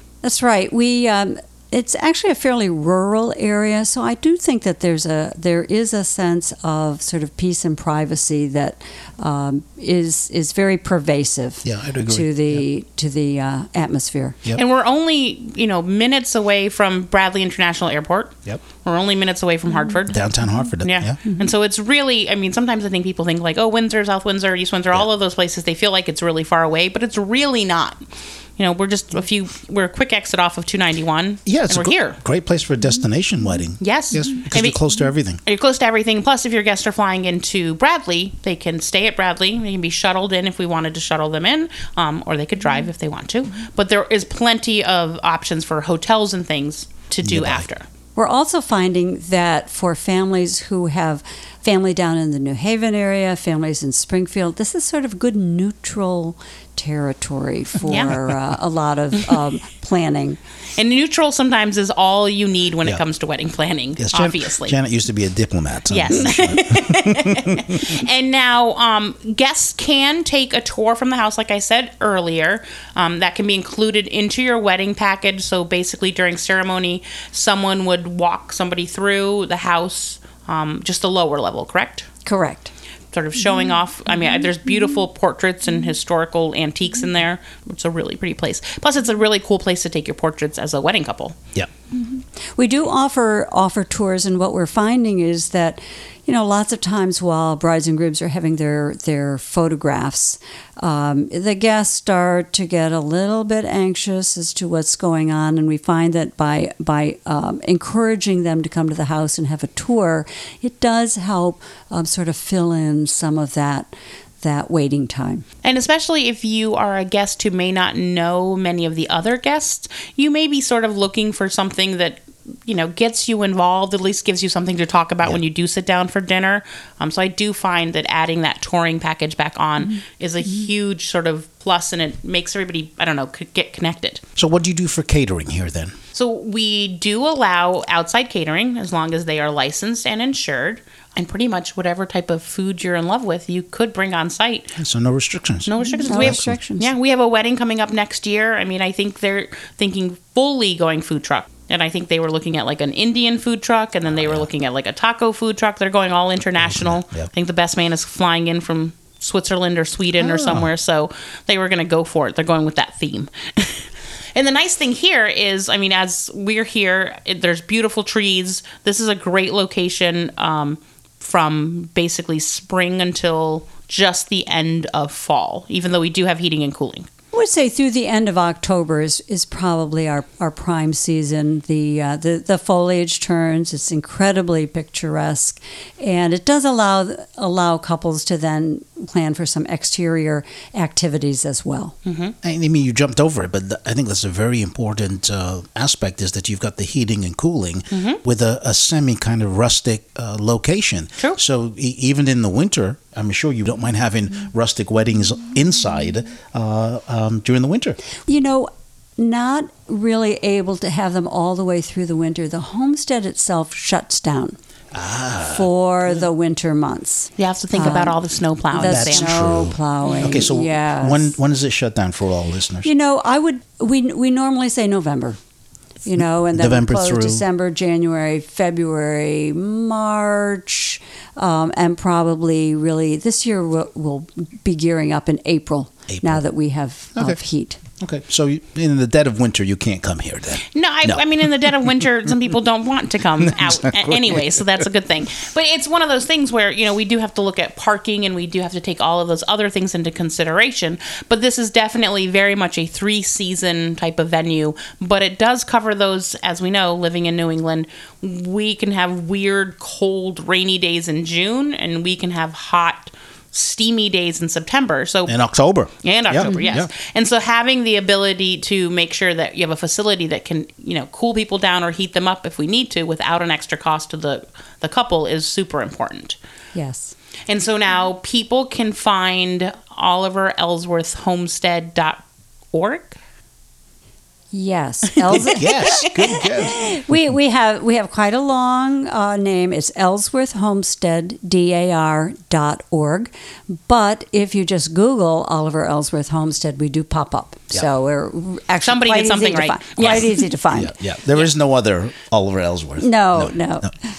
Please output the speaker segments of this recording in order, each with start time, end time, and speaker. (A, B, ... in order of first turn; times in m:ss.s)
0:00.2-0:14.4 A
0:11.6-0:12.7 B
0:14.6-0:20.2 C
0:20.1-0:21.2 B
0:20.8-0:28.0 C
0:28.6-0:32.2 C
0:31.5-0:35.4 B
0:33.8-0:34.8 C
0:35.5-0:47.9 C
0:47.2-0:47.6 B
0:48.2-1:00.4 A
0:57.9-0:58.2 C
1:00.8-1:04.8 C
1:04.0-1:07.9 B
1:05.9-1:22.1 C
1:22.2-1:22.7 A
1:23.1-1:31.4 C
1:32.0-1:55.4 A
1:55.6-2:14.2 C
2:14.4-2:16.0 B
2:16.2-2:24.7 C
2:24.8-2:26.5 B
2:25.7-2:57.1 C
2:25.8-2:26.9 A
2:34.1-2:34.5 B
2:36.6-2:37.3 B
2:40.2-2:40.7 B
2:57.3-3:12.0 A
3:12.0-3:12.4 C
3:12.4-3:28.0 B
3:17.9-3:18.2 C
3:28.3-3:34.6 A
3:34.9-3:35.7 B
3:35.5-3:38.2 A
3:37.4-3:39.3 C
3:38.7-3:41.3 A
3:38.8-3:42.9 B
3:40.1-3:40.3 C
3:42.8-3:45.4 A
3:46.0-3:57.8 A
3:46.5-3:47.4 B
3:56.1-3:56.4 B
3:58.0-4:01.8 B
4:00.7-4:25.4 C
4:03.5-4:04.4 B
4:25.3-4:26.9 B
4:26.0-4:36.4 C
4:26.5-4:26.8 A
4:36.7-4:37.1 A
4:37.5-4:43.2 C
4:44.5-4:45.8 A
4:45.5-4:46.9 B
4:46.7-5:00.9 A
4:58.8-5:00.4 C
5:00.7-5:03.9 B
5:03.0-5:03.9 A